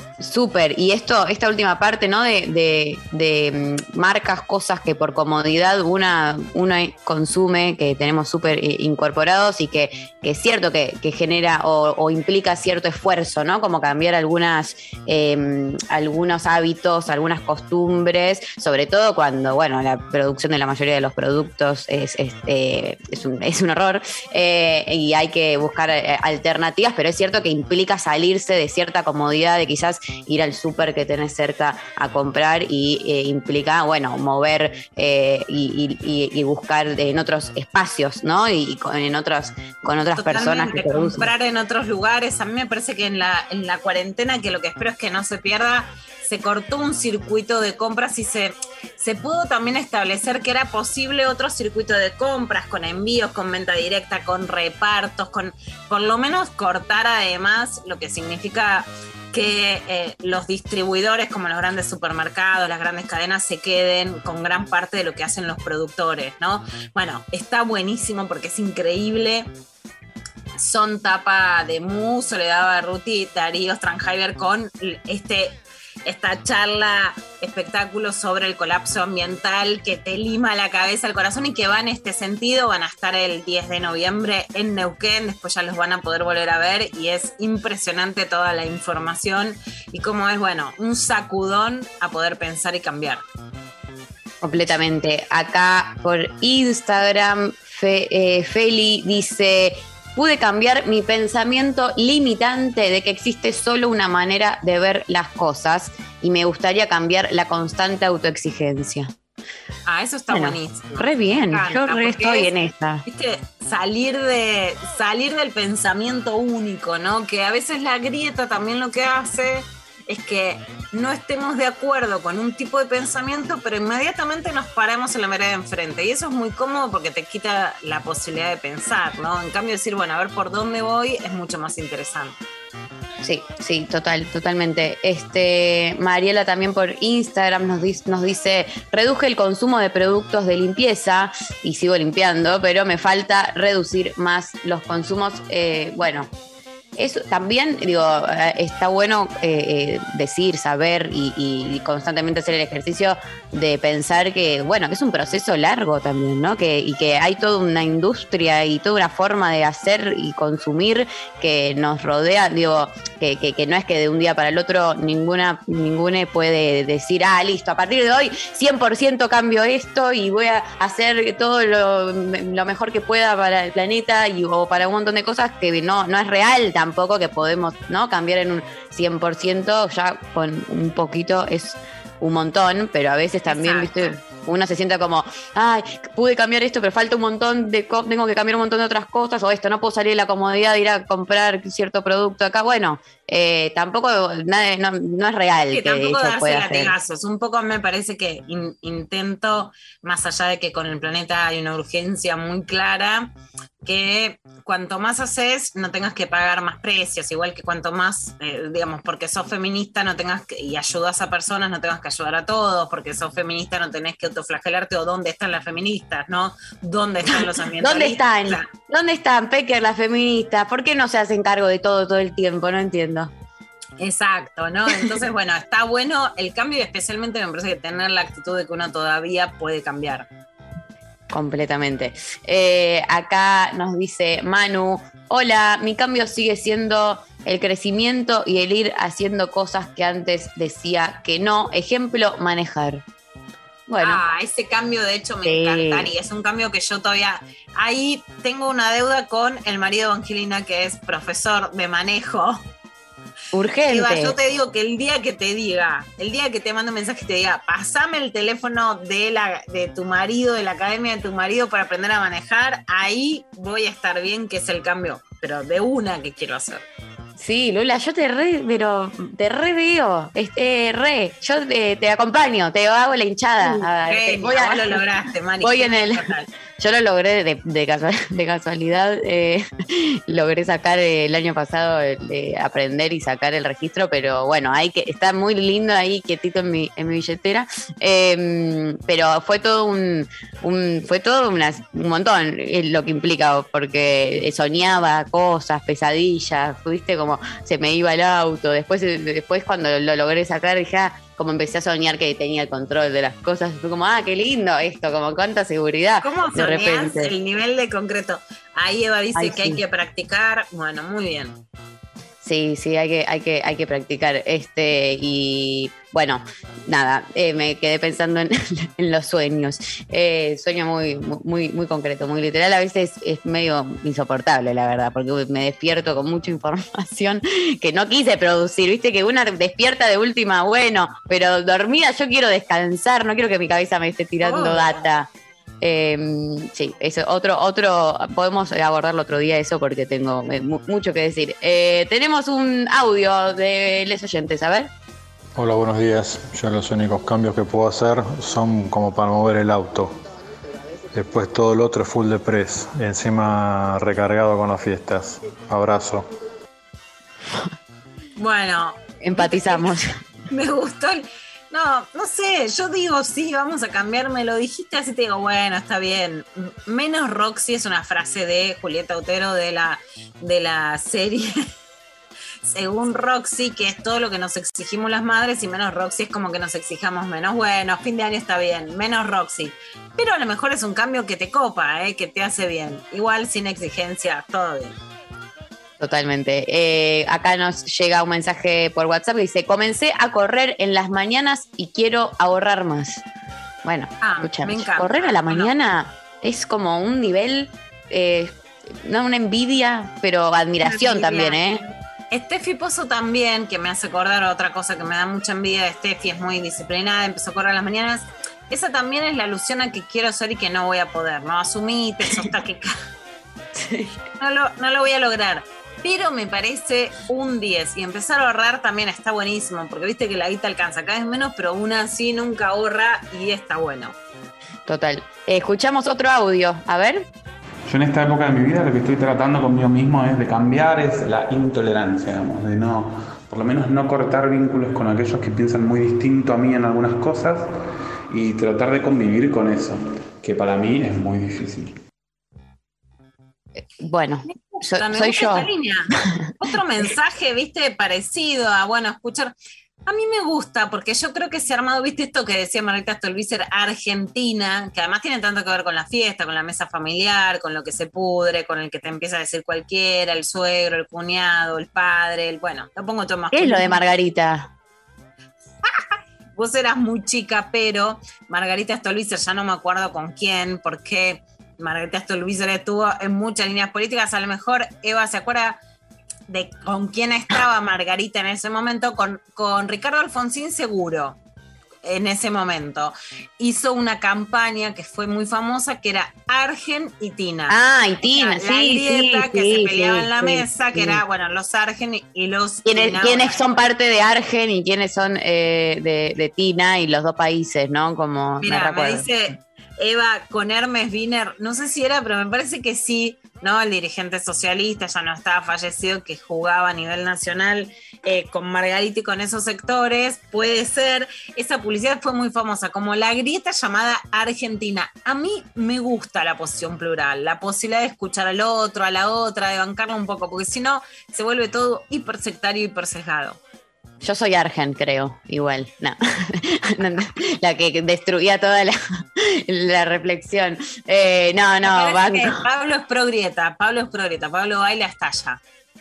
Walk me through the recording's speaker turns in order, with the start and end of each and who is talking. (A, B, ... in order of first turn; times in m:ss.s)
0:00.2-0:41.3 A
0:40.1-1:09.5 B
1:10.6-1:33.2 B
1:34.4-1:49.1 A
1:49.9-2:12.4 B
1:50.3-1:53.0 A
2:13.2-2:26.3 A
2:27.0-3:16.9 A
3:03.5-3:04.2 B
3:15.7-3:23.3 B
3:23.8-3:38.7 B
3:37.3-3:43.3 A
3:44.0-3:50.3 B
3:51.3-4:03.0 A
4:03.9-4:04.2 A
4:04.0-4:12.6 B
4:05.4-4:06.1 A
4:13.5-4:14.3 A
4:13.9-4:26.8 B
4:27.4-4:35.0 A
4:33.6-4:36.5 B
4:35.6-5:07.3 A
5:06.2-5:11.6 B
5:09.3-5:09.8 A
5:12.4-5:35.3 A
5:34.4-5:35.0 B
5:35.8-5:44.9 A
5:45.6-5:50.1 C
5:51.1-5:56.2 C
5:58.4-5:59.9 B
5:59.2-6:00.1 A
6:00.5-6:11.5 B
6:12.7-6:25.0 B
6:26.0-6:33.2 A
6:33.8-6:41.8 A
6:34.2-6:35.7 B
6:40.8-6:41.8 B
6:42.3-6:52.9 B
6:53.7-6:54.1 A
6:54.4-7:04.1 B
7:04.8-7:07.3 A
7:07.9-7:17.7 D
7:18.3-7:22.0 D
7:23.8-7:25.7 A
7:24.5-7:29.5 B
7:30.0-7:44.0 B
7:43.5-7:44.7 A
7:46.6-7:55.8 B
7:56.5-8:01.4 B
8:02.0-8:13.6 B
8:07.7-8:11.2 A
8:12.8-8:19.3 A
8:18.6-8:43.6 B
8:44.2-8:52.6 A
8:51.8-8:55.6 B